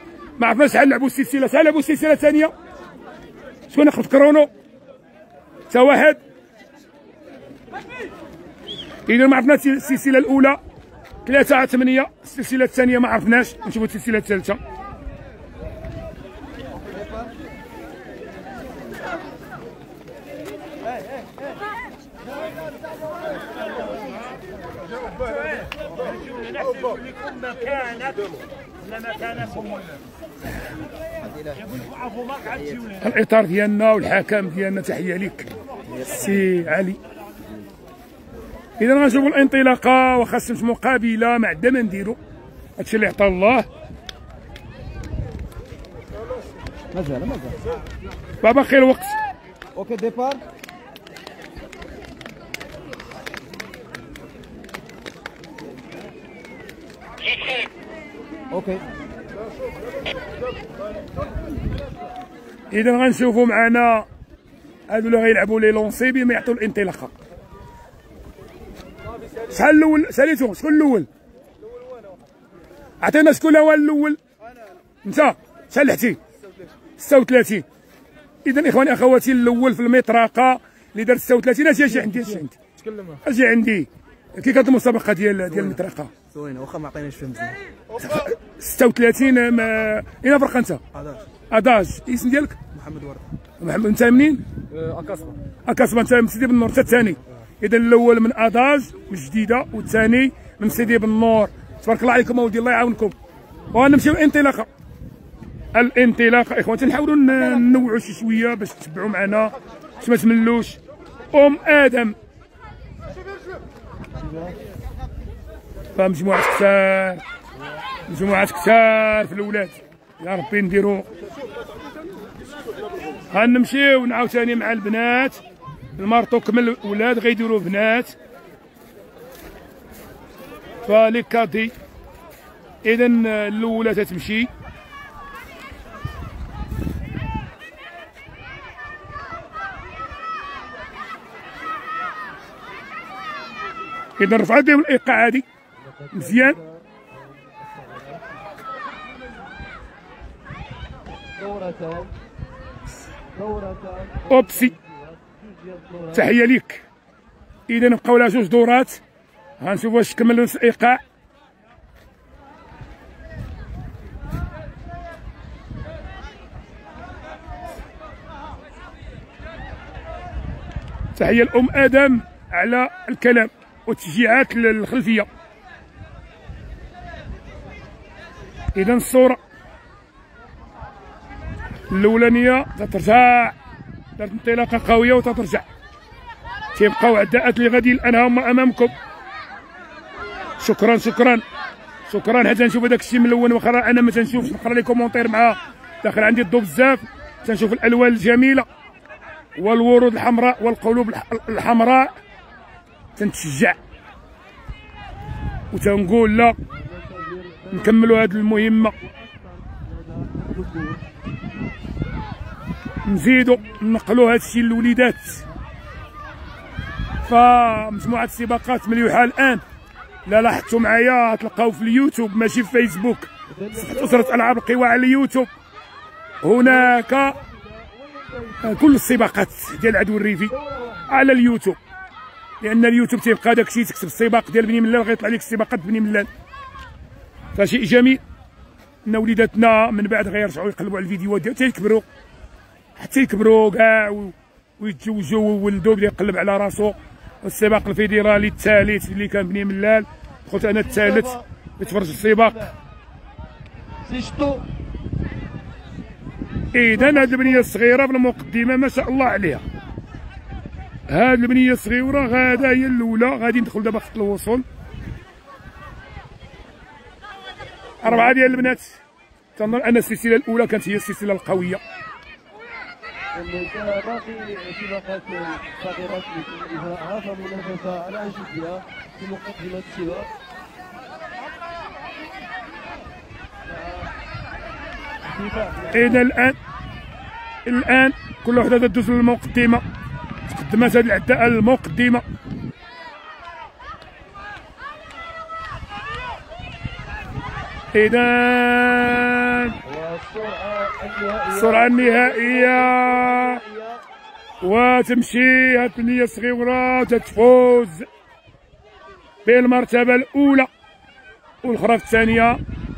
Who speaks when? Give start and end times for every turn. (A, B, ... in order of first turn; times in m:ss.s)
0:00.4-0:02.5 A
0:03.7-0:04.5 A
0:05.7-0:06.2 A
0:09.1-0:10.6 A
0:11.2-0:14.6 A
0:31.2-0:31.8 B
0:33.0-0:35.5 A
0:35.9-0:36.4 B
0:36.0-0:37.0 A
0:38.8-0:42.2 A
0:42.8-0:43.7 A
0:46.9-0:47.6 B
0:48.4-0:49.2 A
0:49.8-0:50.4 B
0:58.5-0:58.8 B
1:02.7-1:04.1 A
1:04.9-1:07.1 A
1:09.5-1:11.1 A
1:13.0-1:14.2 A
1:15.0-1:16.2 A
1:17.0-1:17.6 A
1:18.4-1:22.6 A
1:22.8-1:23.2 B
1:23.2-1:26.1 A
1:25.5-1:25.8 B
1:26.3-1:27.6 B
1:28.0-1:30.8 A
1:30.9-1:31.2 B
1:31.5-1:32.6 A
1:32.7-1:33.3 B
1:33.6-1:34.4 A
1:34.7-1:35.4 B
1:35.7-1:43.2 A
1:43.7-1:44.7 A
1:45.7-1:50.8 A
1:51.3-1:52.2 A
1:56.0-1:57.2 A
1:58.1-2:01.1 A
2:03.3-2:05.4 A
2:05.9-2:08.2 A
2:10.8-2:11.7 A
2:12.8-2:14.5 A
2:24.2-2:25.5 A
2:25.9-2:28.2 C
2:26.1-2:26.6 A
2:31.4-2:32.1 C
2:33.3-2:36.3 C
2:34.3-2:34.7 A
2:36.1-2:36.8 A
2:37.7-2:39.0 A
2:39.6-2:41.0 A
2:51.2-2:55.3 A
2:58.7-2:59.4 A
3:01.9-3:03.6 A
3:04.2-3:05.6 A
3:06.8-3:08.9 A
3:10.6-3:11.4 A
3:12.1-3:18.7 A
3:19.6-3:22.2 A
3:23.2-3:23.8 A
3:25.7-3:26.6 A
3:26.7-3:31.0 C
3:27.7-3:29.0 A
3:33.1-3:35.4 A
3:37.2-3:39.6 A
3:40.3-3:45.5 A
3:43.5-3:44.4 C
3:46.4-3:47.4 A
3:46.6-3:48.8 C
3:48.6-3:50.5 A
3:50.5-3:51.1 C
3:51.1-3:51.8 A
3:52.6-3:56.3 A
3:57.6-3:58.2 A
3:59.0-4:02.0 A
4:03.0-4:12.6 A
4:10.6-4:12.8 C
4:14.0-4:14.6 C
4:16.7-4:19.6 A
4:17.0-4:17.7 C
4:21.1-4:24.6 A
4:28.0-4:29.0 A
4:29.6-4:31.8 A
4:33.4-4:40.3 C
4:43.7-4:44.1 C
4:45.2-4:46.2 C
4:45.9-4:46.6 A
4:47.7-4:49.8 A
4:50.5-4:52.2 A
4:57.9-4:59.8 A
4:59.8-5:04.0 C
5:01.5-5:03.6 A
5:04.6-5:08.1 A
5:09.4-5:10.7 A
5:11.6-5:12.6 A